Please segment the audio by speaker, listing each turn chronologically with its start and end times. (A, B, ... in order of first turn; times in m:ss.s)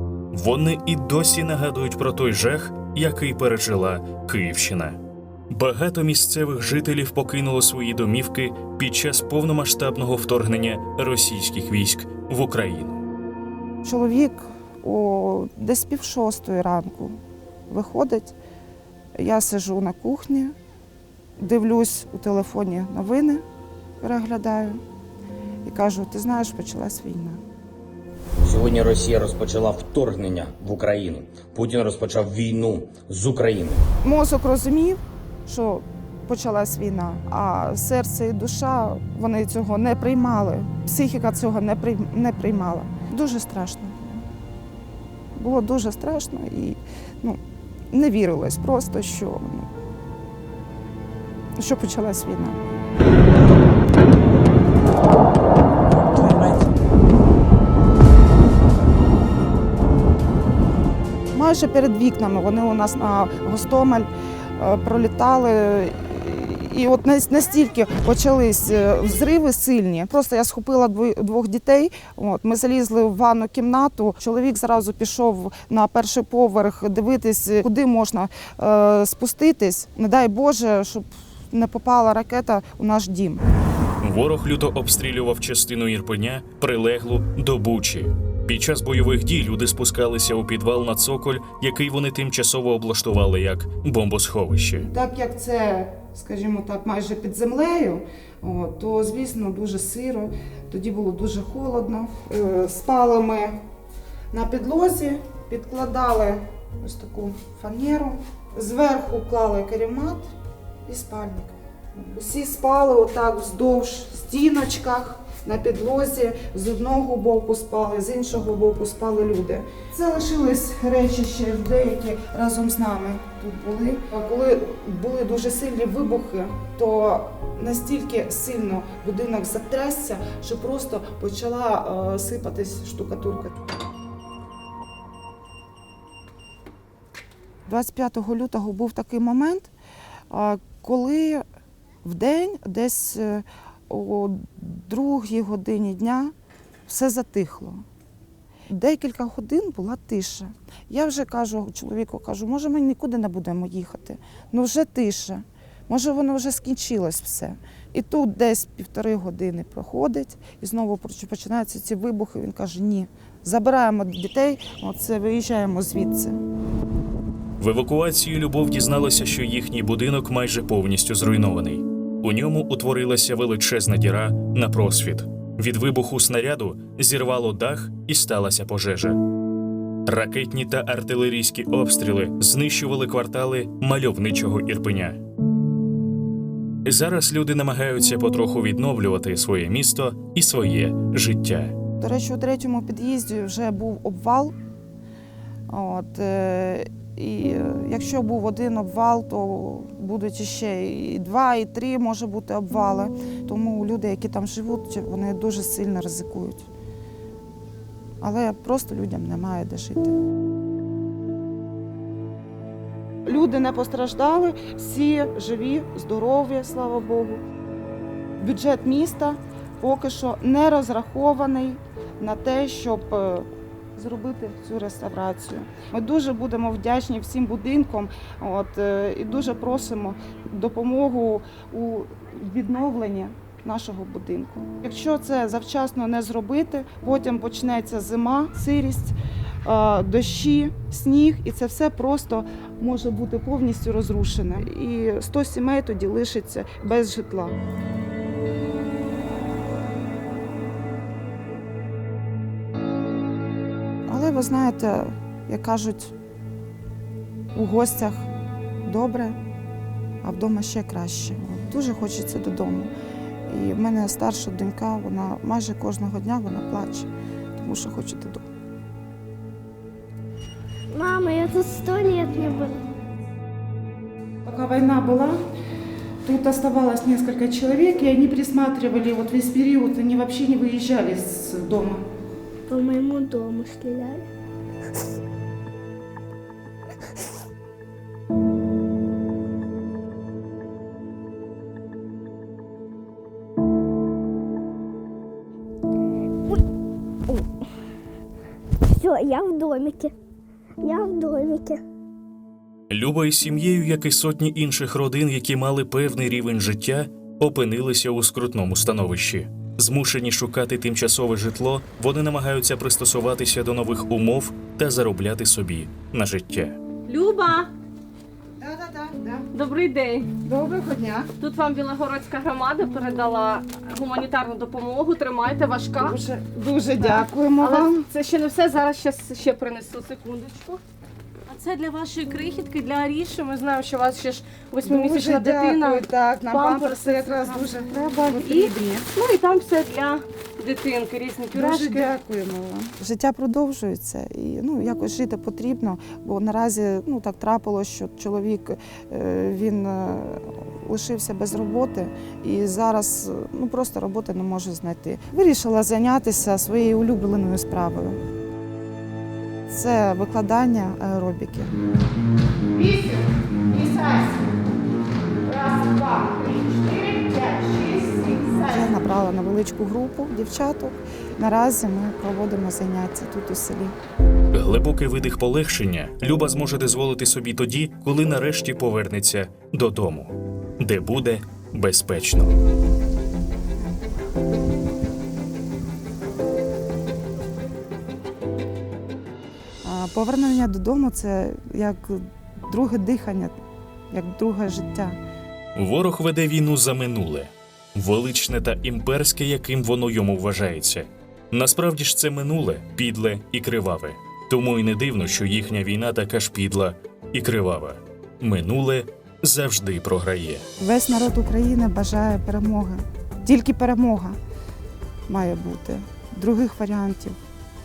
0:00.3-0:05.0 A
0:05.5-0:13.0 A
0:13.8-0:17.2 B
0:17.7-0:18.3 B
0:19.2-0:20.5 B
0:21.4-0:23.4 B
0:24.0-0:24.8 B
0:25.6-0:27.4 B
0:28.4-0:33.8 C
0:34.0-0:44.2 B
0:45.4-0:47.4 B
0:47.9-0:49.7 B
0:51.6-0:52.6 B
1:01.3-1:23.4 B
1:24.0-1:34.9 A
1:34.8-1:43.6 B
1:44.3-1:50.3 B
1:50.8-2:13.6 B
2:17.7-2:19.7 B
2:20.3-2:21.4 B
2:22.0-2:26.3 B
2:26.9-2:27.8 B
2:28.7-2:46.4 B
2:47.6-2:59.2 A
3:00.1-3:05.2 A
3:06.8-3:11.8 A
3:12.0-3:14.5 B
3:15.7-3:26.7 B
3:28.2-3:30.2 B
3:33.2-3:37.4 B
3:38.4-4:07.5 B
4:14.1-4:16.1 B
4:17.5-4:18.3 B
4:18.8-4:19.4 B
4:20.2-4:22.9 B
4:23.5-4:28.4 B
4:30.9-4:32.8 D
4:34.4-4:35.4 B
4:36.2-4:42.0 B
4:42.7-4:44.2 D
4:58.9-5:00.1 D
5:00.8-5:01.8 D
5:02.9-5:16.8 A
5:17.1-5:17.7 E
5:18.6-5:19.5 B
5:19.5-5:20.3 E
5:20.4-5:21.3 B
5:21.4-5:26.2 E
5:26.0-5:28.1 B
5:27.0-5:30.8 E
5:31.5-5:37.6 E
5:34.8-5:39.1 B
5:38.3-5:42.1 E
5:41.5-5:58.2 B
5:59.7-6:01.7 B
6:02.7-6:04.5 E
6:05.4-6:08.8 E
6:08.6-6:14.0 B
6:14.5-6:22.5 A
6:29.8-6:33.5 B
6:34.1-6:35.2 B
6:35.8-6:50.6 A
6:50.8-6:54.4 B
6:55.3-6:57.4 B